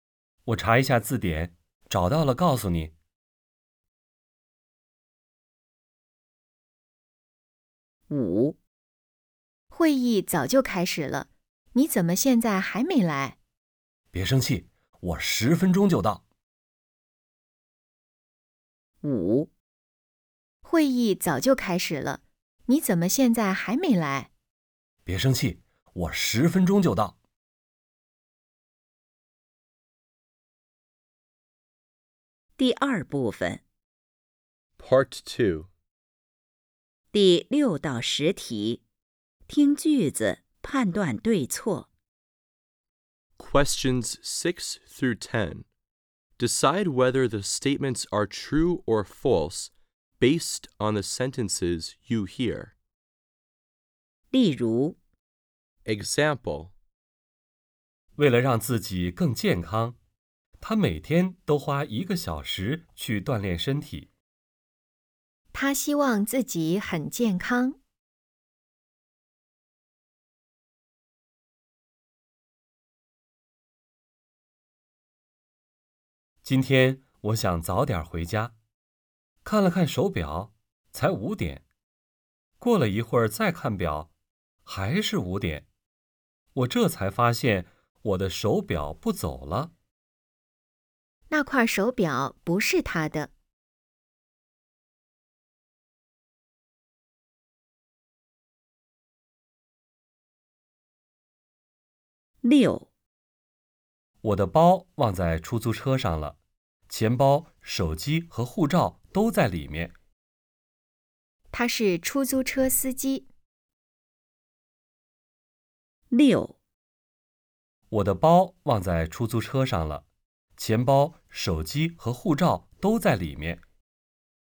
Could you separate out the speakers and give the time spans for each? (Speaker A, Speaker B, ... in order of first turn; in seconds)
Speaker A: 0.5-2.9, 14.1-16.2, 25.1-27.2, 58.1-60.0, 60.6-64.1, 76.4-78.5, 79.4-81.6, 82.6-84.1, 84.7-85.7, 86.5-89.7, 104.2-106.4, 106.9-109.9, 117.9-120.0, 120.6-123.6
Speaker B: 8.1-8.6, 19.0-19.5, 32.6-33.6, 37.1-38.8, 39.5-41.9, 54.3-55.0, 102.4-102.9, 116.1-116.6
Speaker C: 9.7-13.4, 20.6-24.3, 65.5-67.8, 91.3-93.3, 111.5-113.3
Speaker D: 34.8-35.7, 43.4-45.6, 46.4-52.7, 55.9-56.7